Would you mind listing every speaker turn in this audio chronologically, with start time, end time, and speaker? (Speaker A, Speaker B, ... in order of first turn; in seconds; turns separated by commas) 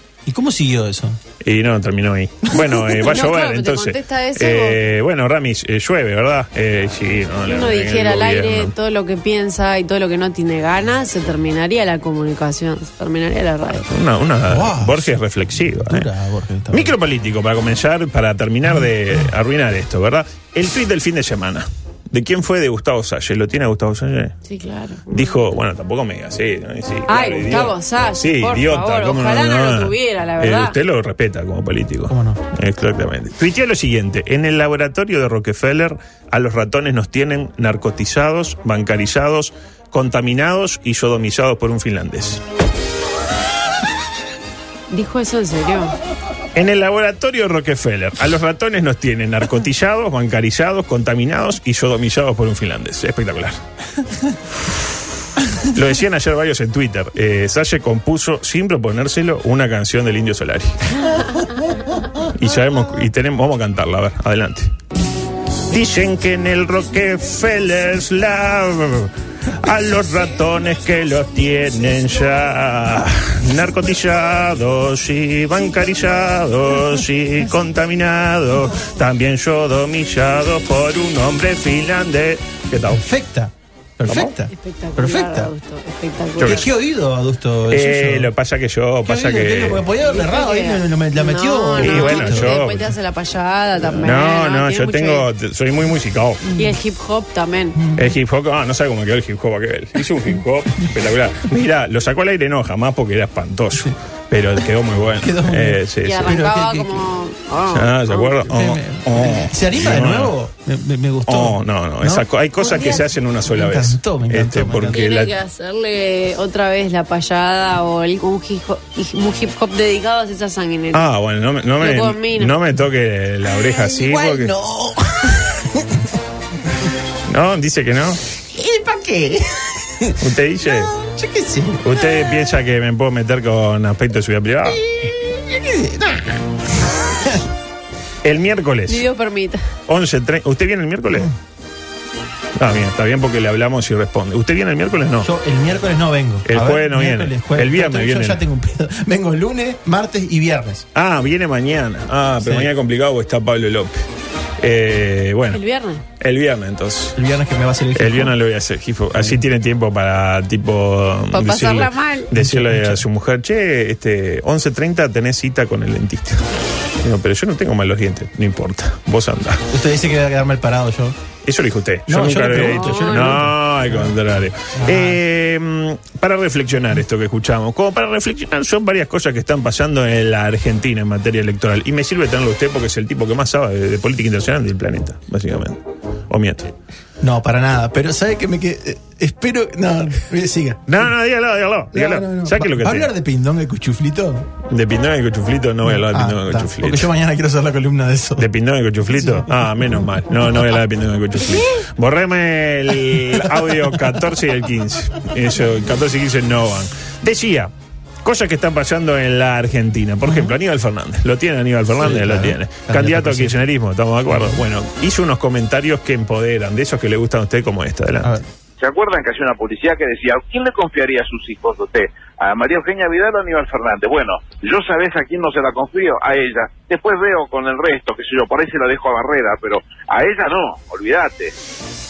Speaker A: 0.2-1.2, Speaker B: 1.4-8.7, Speaker C: 3.0-4.8, Speaker C: 7.5-13.9, Speaker B: 13.8-16.1, Speaker A: 14.4-15.2, Speaker A: 15.7-16.9, Speaker B: 16.7-24.4, Speaker C: 24.4-25.4, Speaker B: 25.1-42.4, Speaker C: 27.1-30.8, Speaker A: 32.1-32.4, Speaker C: 44.9-45.9, Speaker B: 46.5-53.6, Speaker B: 55.6-61.1, Speaker B: 62.2-64.7, Speaker B: 65.7-83.0, Speaker A: 82.9-85.5, Speaker B: 84.1-84.3, Speaker C: 84.5-86.7, Speaker B: 86.4-86.6, Speaker A: 86.4-88.3, Speaker B: 87.7-89.8, Speaker A: 89.0-92.6, Speaker C: 90.0-95.2, Speaker B: 91.8-92.9, Speaker B: 94.0-96.5, Speaker C: 96.5-97.8, Speaker B: 97.9-106.4, Speaker A: 105.2-107.0, Speaker C: 106.0-108.4, Speaker B: 107.7-110.3, Speaker A: 108.4-112.9, Speaker B: 111.2-115.3, Speaker C: 112.6-113.0, Speaker A: 113.5-115.0, Speaker C: 114.9-121.0, Speaker B: 120.9-124.5, Speaker C: 121.8-122.5, Speaker A: 123.5-126.1, Speaker B: 127.3-128.2, Speaker A: 128.5-132.1, Speaker B: 130.2-130.9, Speaker B: 131.8-134.8, Speaker A: 134.7-137.4, Speaker B: 138.2-139.0, Speaker C: 138.9-139.6, Speaker B: 139.9-141.3, Speaker B: 142.6-145.3, Speaker A: 145.2-150.8, Speaker B: 146.4-148.4, Speaker B: 150.9-154.0, Speaker A: 152.4-152.7, Speaker B: 154.6-155.6, Speaker C: 155.5-156.0, Speaker B: 156.2-157.2, Speaker A: 157.2-158.3, Speaker B: 157.9-166.4, Speaker A: 159.1-159.4, Speaker C: 161.3-162.3, Speaker A: 162.3-163.0, Speaker B: 167.0-169.6, Speaker A: 169.7-171.2, Speaker B: 171.4-185.8, Speaker A: 172.1-174.1, Speaker C: 172.5-173.4, Speaker A: 174.7-175.2, Speaker B: 186.3-186.7, Speaker A: 187.2-191.1, Speaker B: 190.9-193.1, Speaker A: 191.9-194.5, Speaker B: 194.7-197.1, Speaker A: 195.8-198.5, Speaker B: 198.4-207.7, Speaker A: 199.1-199.8, Speaker A: 203.3-204.1, Speaker B: 208.2-218.4, Speaker A: 210.2-210.5, Speaker A: 211.9-213.6, Speaker D: 218.8-231.5